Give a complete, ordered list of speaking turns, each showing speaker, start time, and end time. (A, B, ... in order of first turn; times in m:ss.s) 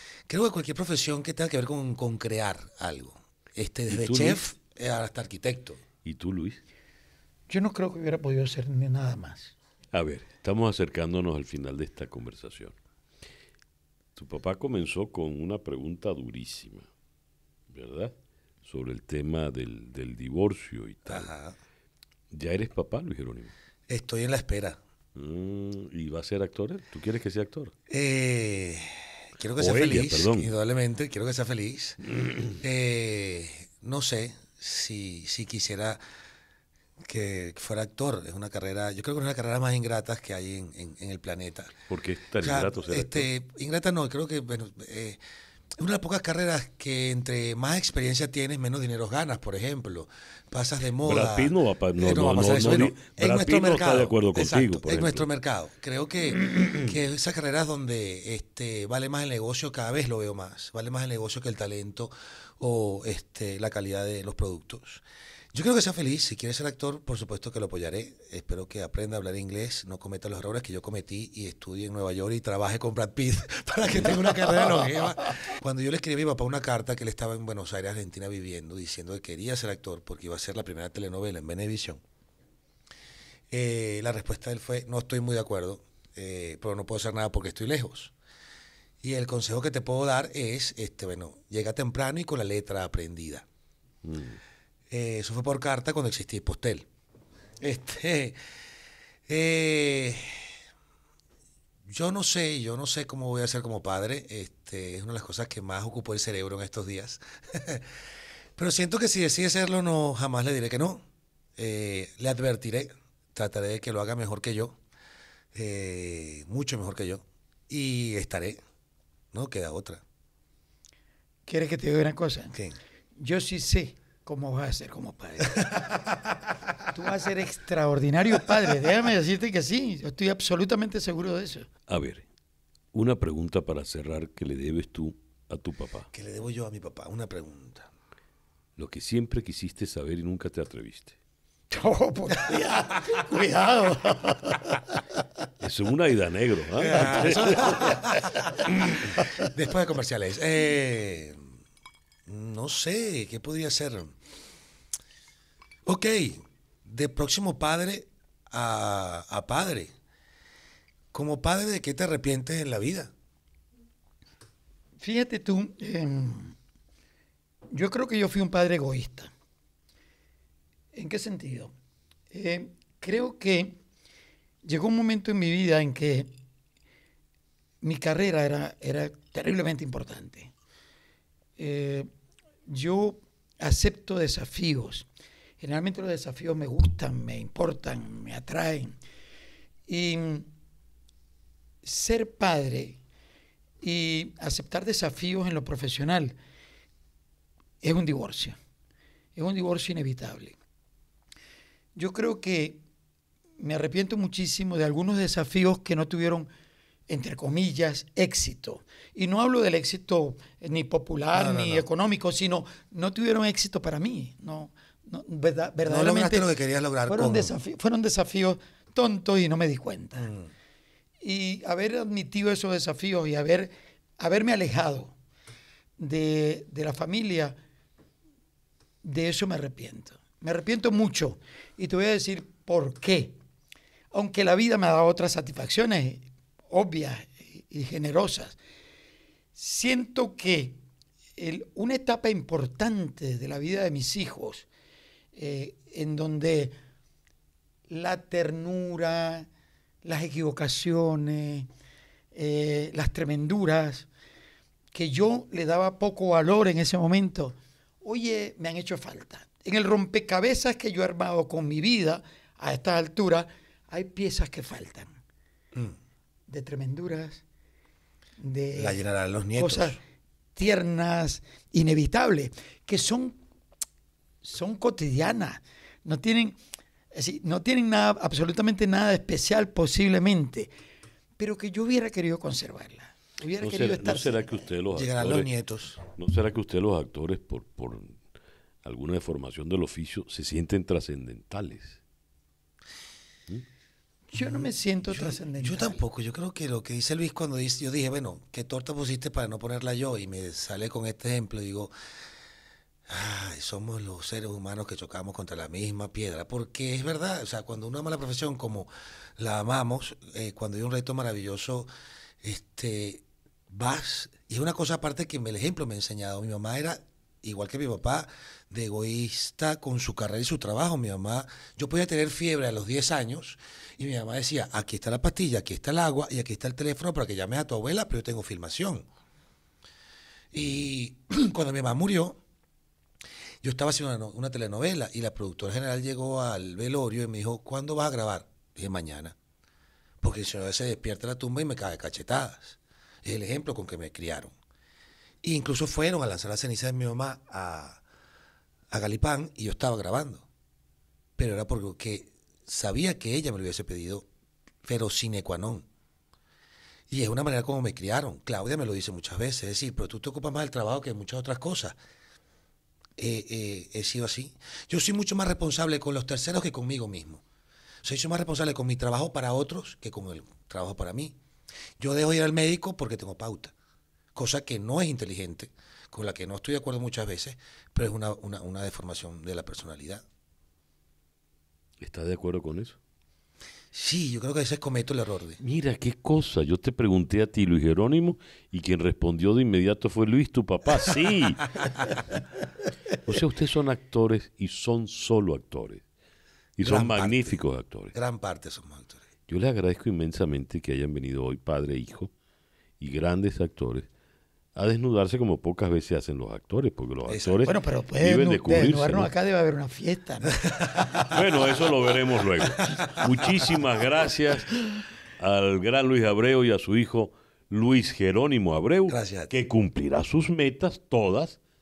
0:00.3-0:05.8 A
0:03.9-0:04.4 B
0:06.0-0:06.6 B
0:07.5-0:09.5 C
0:09.9-0:12.8 B
0:14.2-0:16.9 B
0:17.7-0:18.1 B
0:18.6-0:21.3 B
0:21.0-0:21.6 A
0:22.3-0:23.5 B
0:23.9-0:24.8 A
0:25.1-0:27.7 B
0:27.9-0:32.0 A
0:29.6-0:30.5 B
0:32.6-0:36.0 A
0:37.0-0:41.8 A
0:41.9-0:43.3 B
0:42.4-0:45.2 A
0:45.8-1:22.0 A
0:51.0-0:55.3 B
1:23.5-1:28.1 A
1:29.0-1:33.4 A
1:34.0-1:34.4 B
1:34.9-1:36.9 A
1:37.6-1:38.4 A
1:39.3-1:40.4 A
1:41.9-1:47.9 A
1:48.6-1:51.0 A
1:51.6-1:54.8 A
1:55.5-1:58.6 A
1:59.3-2:00.0 A
2:01.5-2:02.6 C
2:03.2-2:06.0 C
2:06.9-2:11.7 C
2:11.9-2:12.2 B
2:12.9-2:16.1 B
2:16.1-2:17.9 A
2:18.8-2:21.2 B
2:21.7-2:24.8 C
2:25.6-2:27.9 B
2:26.8-2:31.4 A
2:27.6-2:28.5 C
2:32.2-2:34.2 A
2:35.8-2:39.9 A
2:41.1-2:43.1 A
2:45.0-2:46.5 C
2:47.7-2:49.3 C
2:50.9-2:51.7 C
2:52.3-2:53.8 C
2:54.6-2:56.3 C
2:57.8-3:00.5 C
3:01.6-3:02.1 C
3:02.7-3:05.0 C
3:05.6-3:08.9 C
3:09.9-3:10.5 C
3:11.8-3:13.0 C
3:13.8-3:16.4 C
3:17.8-3:18.6 C
3:19.4-3:20.6 C
3:22.0-3:22.8 C
3:23.6-3:26.5 C
3:27.1-3:36.5 C
3:31.3-3:31.8 A
3:35.8-3:37.5 A
3:37.1-3:40.3 C
3:40.2-3:40.5 A
3:41.2-3:45.1 C
3:46.0-3:47.6 C
3:49.0-3:53.4 C
3:54.1-3:58.6 C
3:59.6-4:00.8 C
4:01.4-4:04.6 C
4:05.3-4:06.8 C
4:07.9-4:09.5 C
4:10.0-4:11.7 C
4:12.3-4:14.1 C
4:14.9-4:25.1 C
4:26.5-4:27.4 C
4:28.4-4:29.0 C
4:28.8-4:30.0 A
4:29.6-4:30.0 C
4:30.6-4:33.4 C
4:34.4-4:36.6 C
4:37.1-4:40.7 C
4:41.4-4:44.7 C
4:43.6-4:45.5 B
4:44.9-4:46.0 A
4:46.0-4:48.2 B
4:48.8-4:52.0 B
4:54.3-4:56.0 C
4:54.4-5:01.9 A
5:03.1-5:11.9 A
5:12.4-5:29.1 A
5:30.5-5:32.4 A
5:33.6-5:39.4 A
5:40.2-5:44.5 A
5:45.4-5:48.0 A
5:48.9-5:50.5 A
5:51.4-5:54.2 A
5:54.8-5:55.8 A
5:57.1-6:02.0 A
6:03.2-6:07.4 A
6:08.0-6:11.4 A
6:12.0-6:13.7 A
6:14.3-6:20.2 A
6:22.0-6:23.0 B
6:23.9-6:25.6 A
6:25.6-6:31.7 B
6:33.2-6:36.0 B
6:36.8-6:38.1 B
6:36.8-6:37.6 A
6:38.1-6:39.2 A
6:39.5-6:42.3 B
6:43.0-6:44.1 B
6:44.7-6:49.3 B
6:47.3-6:47.7 A
6:47.7-6:51.2 C
6:51.2-6:54.7 B
6:55.4-7:01.6 B
6:59.1-6:59.5 A